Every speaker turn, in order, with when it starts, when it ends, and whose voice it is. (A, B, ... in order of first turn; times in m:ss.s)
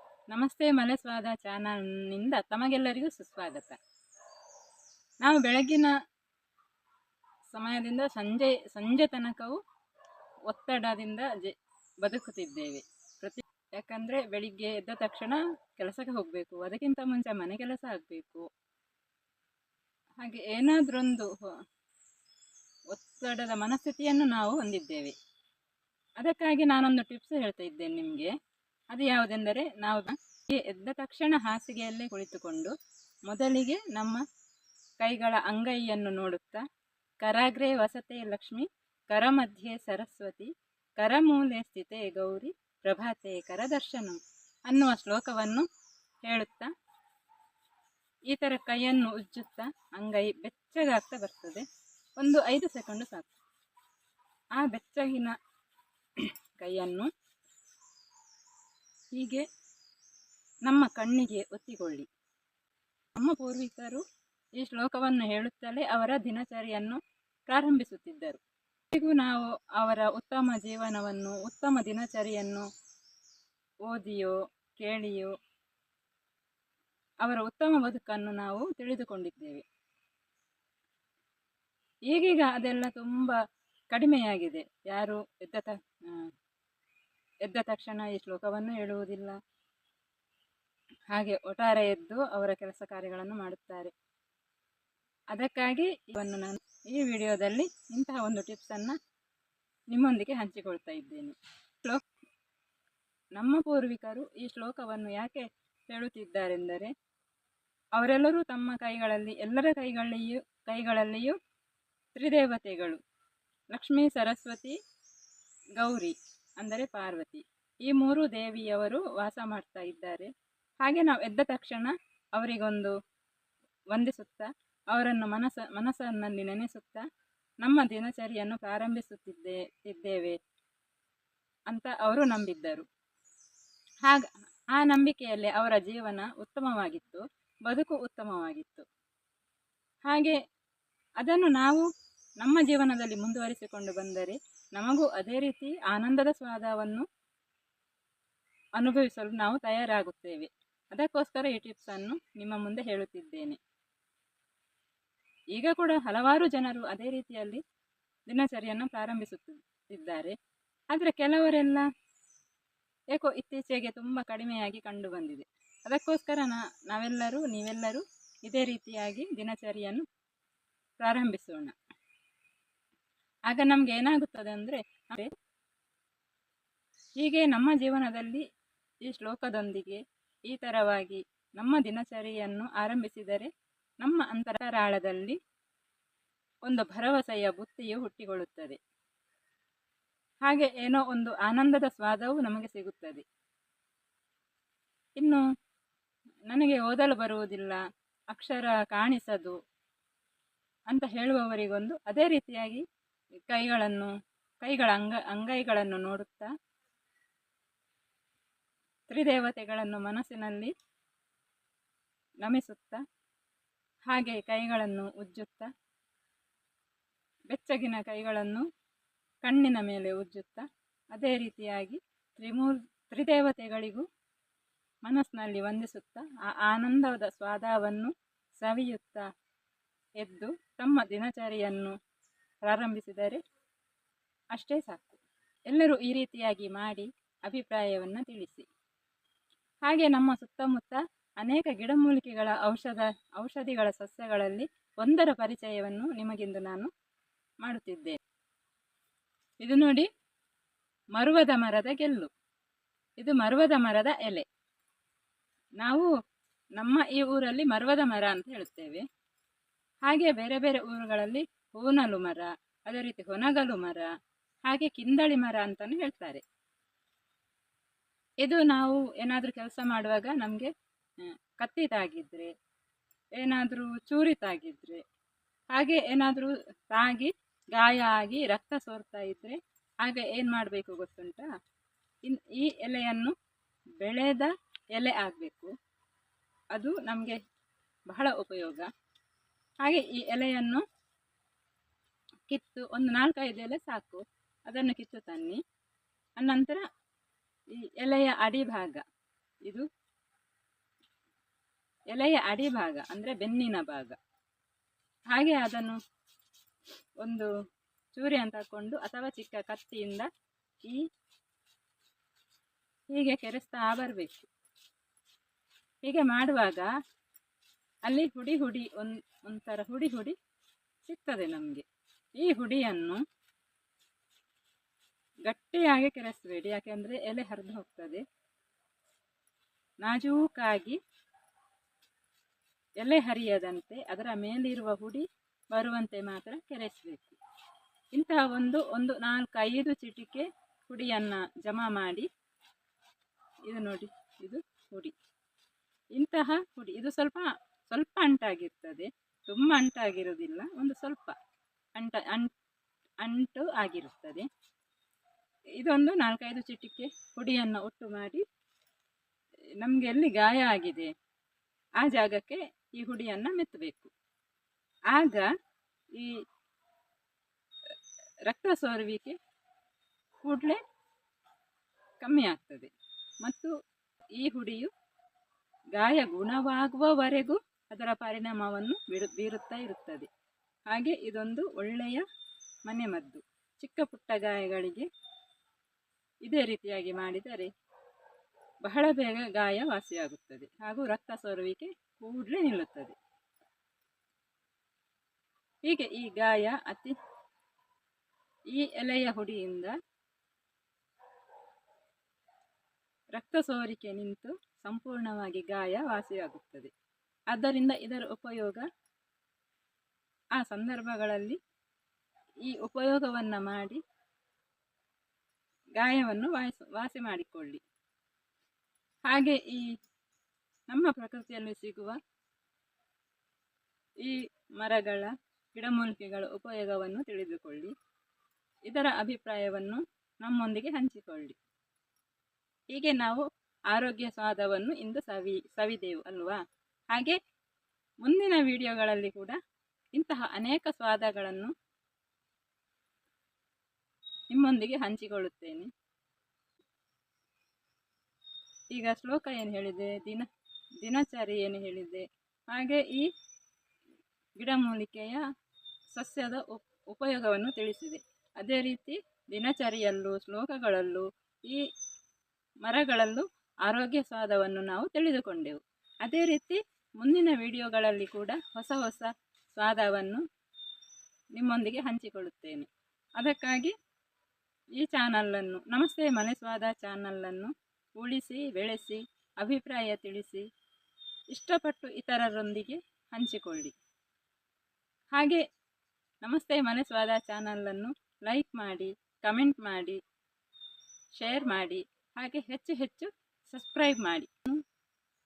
0:00.3-0:03.8 A
0:05.2-0:05.9 A
0:07.5-0:09.6 A
0:10.5-0:18.4 A
0:20.2-0:21.5 A
0:22.9-0:25.1 A
0:26.2-0:28.3 A
0:28.9-0:32.7 A
0:33.3-0:34.2 A
0:35.0-0:36.6 A
0:37.2-0:45.7 A
0:46.2-0:46.7 A
0:48.3-0:51.6 A
0:52.2-0:53.3 A
0:54.6-0:55.4 A
0:56.2-0:57.1 A
0:59.1-0:59.4 A
1:00.6-1:02.1 A
1:03.1-1:04.0 A
1:04.6-1:08.4 A
1:08.9-1:12.6 A
1:13.8-1:15.3 A
1:17.2-1:19.6 A
1:22.1-1:23.4 A
1:23.9-1:26.3 A
1:27.4-1:29.4 A
1:31.1-1:33.9 A
1:35.3-1:39.0 A
1:39.9-1:42.0 A
1:43.3-1:46.9 A
1:48.0-1:51.4 A
1:52.1-1:53.0 A
1:53.7-1:54.8 A
1:55.8-2:00.3 A
2:00.8-2:02.9 A
2:03.9-2:07.0 A
2:07.6-2:10.4 A
2:11.7-2:12.8 A
2:14.0-2:18.8 A
2:20.0-2:20.4 A
2:21.2-2:21.8 A
2:22.4-2:27.0 A
2:28.8-2:33.6 A
2:35.5-2:37.6 A
2:38.3-2:40.3 A
2:40.9-2:41.8 A
2:43.1-2:50.0 A
2:51.0-2:51.7 A
2:53.5-2:55.3 A
2:57.2-2:58.4 A
2:59.0-3:03.5 A
3:04.0-3:05.4 A
3:06.6-3:08.8 A
3:10.4-3:13.2 A
3:15.2-3:15.4 A
3:16.5-3:17.8 A
3:18.3-3:19.6 A
3:20.9-3:22.8 A
3:23.5-3:26.5 A
3:29.1-3:30.7 A
3:32.4-3:33.0 A
3:34.1-3:35.7 A
3:37.5-3:38.6 A
3:39.4-3:44.0 A
3:45.0-3:49.2 A
3:50.2-3:51.9 A
3:52.6-3:53.4 A
3:54.5-3:58.7 A
3:59.8-4:06.9 A
4:07.6-4:08.2 A
4:09.6-4:10.1 A
4:11.2-4:12.3 A
4:13.2-4:14.4 A
4:15.8-4:16.1 A
4:16.8-4:19.0 A
4:20.0-4:24.1 A
4:24.6-4:26.4 A
4:28.4-4:32.5 A
4:33.4-4:35.0 A
4:35.7-4:41.5 A
4:42.2-4:43.3 A
4:44.0-4:45.7 A
4:46.7-4:47.4 A
4:48.1-4:48.9 A
4:49.8-4:50.8 A
4:52.5-4:55.6 A
4:56.4-4:56.8 A
4:57.7-4:59.0 A
5:02.1-5:04.2 A
5:05.3-5:06.0 A
5:07.2-5:07.5 A
5:08.2-5:10.3 A
5:13.1-5:14.5 A
5:16.0-5:16.9 A
5:18.0-5:20.3 A
5:21.0-5:21.8 A
5:22.4-5:23.2 A
5:25.4-5:28.2 A
5:30.0-5:31.0 A
5:33.0-5:37.4 A
5:38.1-5:42.3 A
5:43.7-5:45.1 A
5:46.1-5:51.4 A
5:52.0-5:52.5 A
5:53.2-5:54.5 A
5:55.8-5:58.4 A
5:59.8-6:01.1 A
6:02.0-6:04.1 A
6:05.1-6:05.5 A
6:08.4-6:09.4 A
6:10.4-6:10.8 A
6:12.2-6:12.9 A
6:13.4-6:13.7 A
6:14.4-6:14.9 A
6:16.0-6:20.3 A
6:20.9-6:22.2 A
6:22.8-6:25.0 A
6:26.4-6:27.7 A
6:28.8-6:33.1 A
6:35.8-6:37.1 A
6:38.7-6:39.9 A
6:43.3-6:46.9 A
6:47.5-6:48.8 A
6:50.6-6:51.6 A
6:52.6-6:54.0 A
6:56.0-6:57.8 A
6:59.3-6:59.9 A
7:00.9-7:02.2 A
7:04.2-7:07.9 A
7:08.9-7:11.6 A
7:12.9-7:16.6 A
7:17.1-7:17.4 A
7:18.2-7:19.6 A
7:20.1-7:21.7 A
7:24.5-7:25.9 A
7:28.9-7:30.5 A
7:31.0-7:33.3 A
7:34.6-7:35.4 A
7:36.1-7:41.8 A
7:42.8-7:50.4 A
7:51.5-7:53.9 A
7:55.0-8:00.6 A
8:01.5-8:03.9 A
8:05.3-8:05.6 A
8:06.4-8:10.2 A
8:11.4-8:14.8 A